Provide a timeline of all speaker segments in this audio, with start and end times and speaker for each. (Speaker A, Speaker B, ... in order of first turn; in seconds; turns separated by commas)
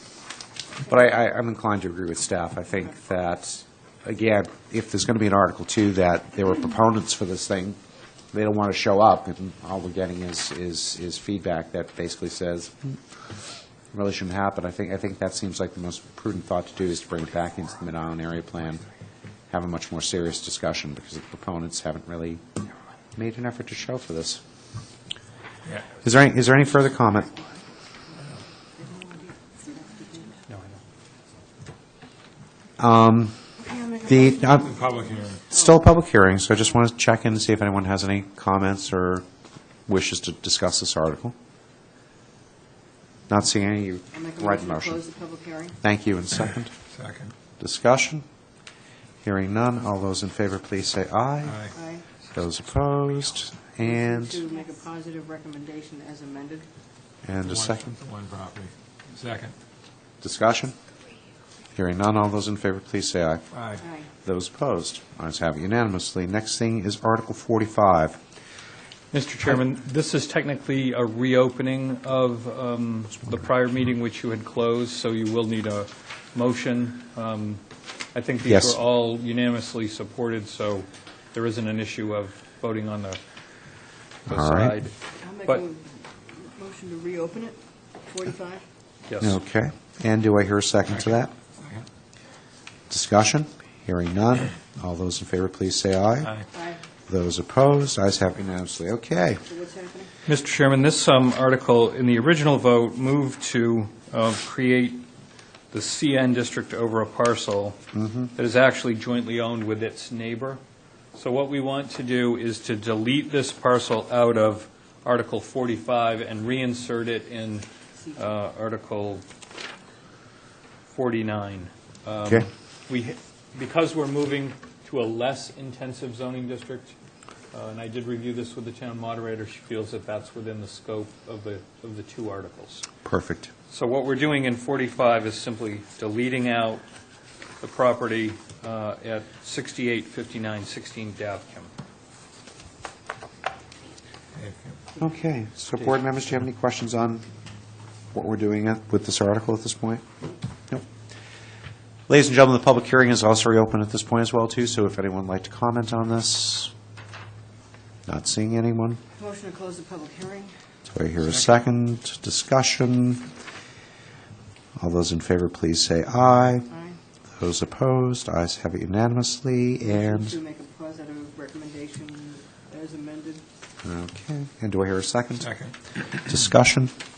Speaker A: 0.8-7.8, Speaker A: 8.3-12.9, Speaker A: 13.9-18.9, Speaker A: 19.5-22.4, Speaker A: 23.1-24.4, Speaker A: 25.9-27.5, Speaker B: 28.8-30.4, Speaker C: 30.5-30.8, Speaker A: 32.8-33.4, Speaker B: 33.6-35.8, Speaker A: 34.0-34.8, Speaker D: 34.6-35.5, Speaker A: 35.5-39.2, Speaker A: 39.9-41.3, Speaker A: 43.3-45.0, Speaker B: 44.1-45.8, Speaker A: 45.8-46.8, Speaker D: 46.9-47.3, Speaker A: 47.6-48.2, Speaker A: 49.2-51.7, Speaker D: 51.4-51.7, Speaker B: 51.7-52.0, Speaker A: 52.3-54.4, Speaker B: 53.8-56.6, Speaker A: 57.2-58.0, Speaker D: 57.5-59.5, Speaker A: 60.2-60.7, Speaker A: 61.7-63.5, Speaker D: 63.5-63.8, Speaker B: 63.8-64.1, Speaker A: 64.1-68.2, Speaker C: 69.1-77.6, Speaker C: 78.1-83.2, Speaker A: 78.5-78.8, Speaker C: 84.2-85.6, Speaker A: 84.3-84.8, Speaker B: 85.2-88.6, Speaker C: 89.1-89.4, Speaker A: 89.2-91.3, Speaker D: 91.6-91.9, Speaker A: 92.9-96.4, Speaker B: 96.5-96.8, Speaker A: 97.0-99.4, Speaker B: 99.5-100.1, Speaker C: 100.2-105.0, Speaker C: 105.7-107.8, Speaker A: 107.9-108.3, Speaker C: 108.3-110.6, Speaker C: 111.1-119.2, Speaker C: 120.9-126.9, Speaker C: 127.5-132.8, Speaker A: 133.0-133.5, Speaker C: 133.7-136.8, Speaker C: 137.6-141.7, Speaker D: 144.3-144.8, Speaker A: 145.0-147.2, Speaker A: 148.1-150.0, Speaker A: 152.1-156.7, Speaker A: 158.1-159.0, Speaker B: 159.1-160.5, Speaker A: 160.9-163.3, Speaker A: 164.8-166.7, Speaker B: 166.7-167.0, Speaker A: 167.3-170.4, Speaker B: 169.8-173.4, Speaker A: 173.8-175.5, Speaker D: 175.4-175.7, Speaker A: 176.1-176.9